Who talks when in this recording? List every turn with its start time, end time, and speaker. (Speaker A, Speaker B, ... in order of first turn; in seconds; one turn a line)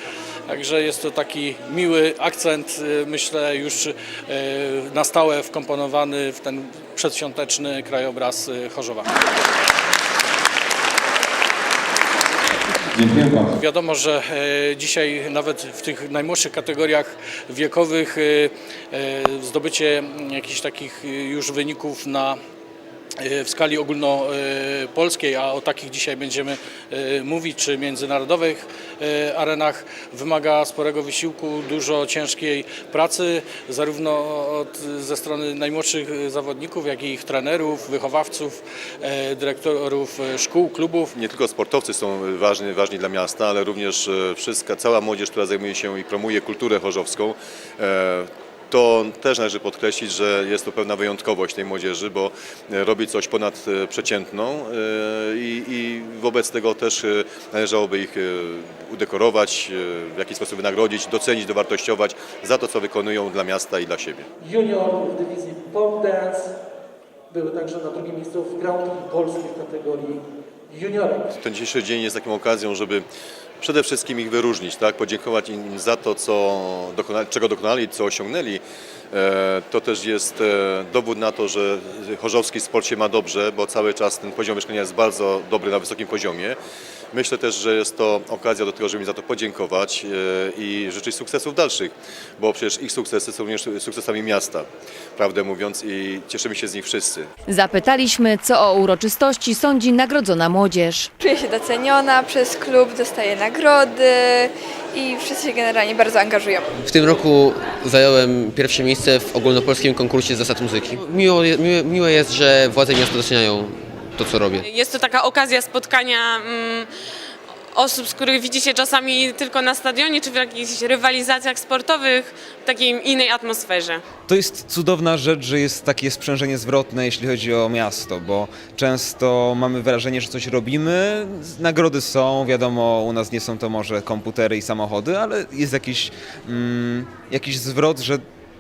Speaker A: 0.5-9.1
Speaker A: 13.0-22.4
Speaker A: 23.2-41.1
Speaker B: 41.1-64.3
Speaker C: 64.4-66.5
Speaker C: 67.3-71.3
Speaker B: 71.3-73.1
Speaker B: 73.6-86.6
Speaker B: 87.1-97.3
Speaker D: 97.5-101.1
Speaker E: 101.2-106.7
Speaker F: 106.8-114.6
Speaker G: 114.6-116.9
Speaker G: 117.7-124.0
Speaker H: 124.3-138.2